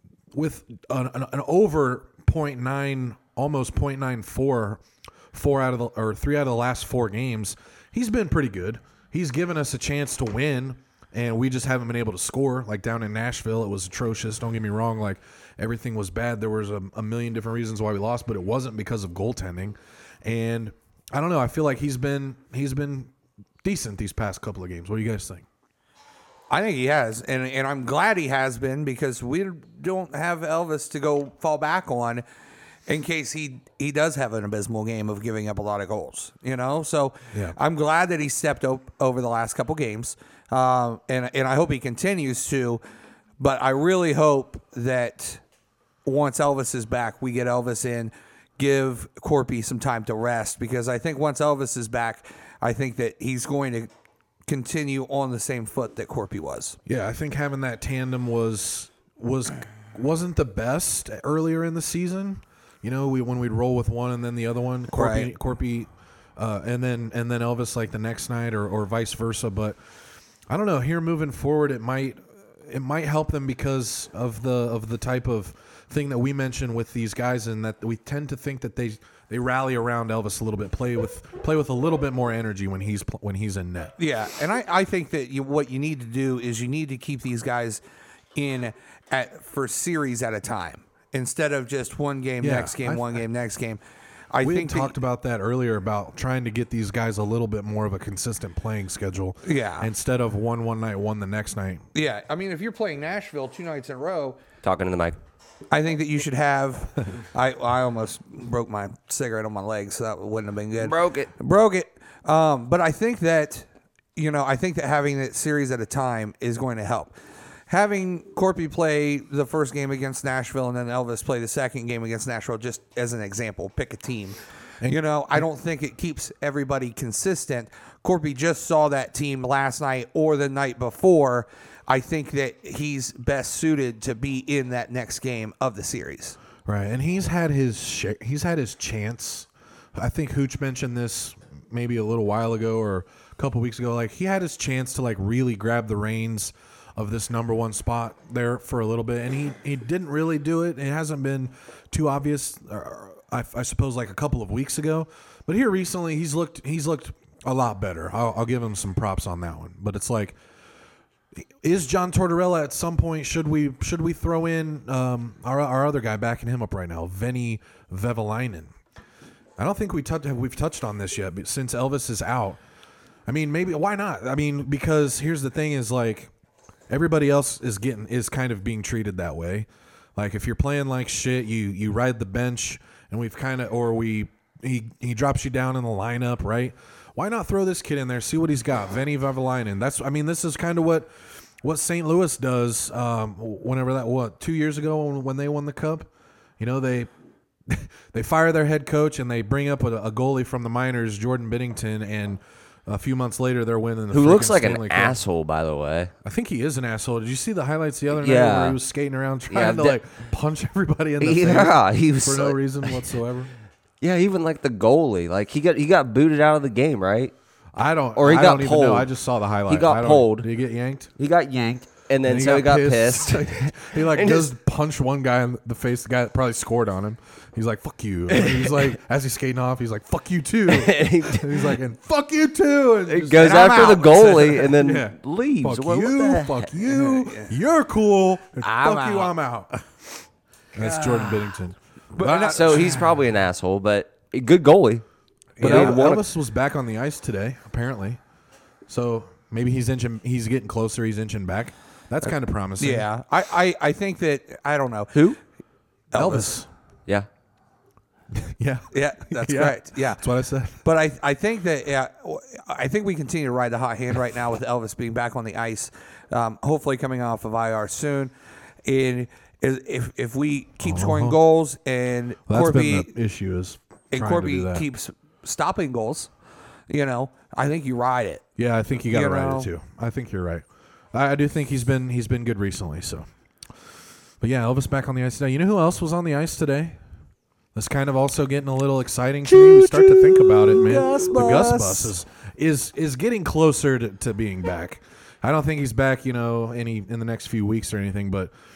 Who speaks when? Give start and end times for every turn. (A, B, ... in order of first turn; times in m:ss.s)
0:00.3-0:25.4 A
0:26.5-0:32.2 B
0:32.9-0:42.8 B
0:43.4-0:45.4 B
0:46.0-0:53.9 B
0:54.5-0:56.8 B
0:56.9-1:09.8 A
1:04.9-1:05.3 B
1:10.5-1:23.9 A
1:24.0-1:27.8 B
1:28.4-1:33.8 B
1:32.4-1:33.2 A
1:34.3-1:34.9 B
1:34.4-1:41.9 A
1:39.4-1:39.9 B
1:41.9-1:44.4 B
1:44.6-1:45.2 C
1:45.7-1:57.1 B
1:50.8-1:51.3 C
1:57.7-2:16.4 B
2:04.8-2:05.4 A
2:16.7-2:40.4 A
2:41.4-2:48.8 A
2:49.6-2:52.6 A
2:53.3-2:56.3 A
2:56.9-3:17.1 A
3:17.7-3:25.2 A
3:24.1-3:26.1 C
3:26.2-3:33.5 A
3:28.1-3:28.8 C
3:29.5-3:30.0 C
3:31.2-3:33.1 C
3:34.0-3:37.3 C
3:37.8-3:41.1 A
3:38.2-3:39.1 C
3:39.7-3:40.5 C
3:41.2-3:44.5 C
3:42.2-4:00.2 A
3:48.3-3:48.9 C
3:50.7-3:51.8 C
3:53.1-3:57.1 C
3:53.4-3:54.7 B
3:56.9-3:57.5 B
3:58.6-3:59.3 B
4:00.7-4:03.1 A
4:00.8-4:01.4 B
4:02.1-4:03.1 B
4:02.4-4:05.0 C
4:05.6-4:06.0 B
4:05.6-4:06.2 C
4:05.6-4:08.2 A
4:08.9-4:13.1 A
4:12.8-4:15.4 B
4:16.1-4:16.6 B
4:16.1-4:16.7 A
4:18.4-4:20.8 A
4:18.9-4:28.3 B
4:28.9-4:33.1 B
4:30.8-4:31.4 A
4:32.5-4:34.9 A
4:34.1-4:36.3 B
4:36.9-4:38.4 B
4:38.6-4:43.3 A
4:39.1-4:39.7 B
4:44.4-4:47.0 A
4:47.8-4:58.5 A
4:49.5-4:51.9 C
4:50.6-4:52.1 B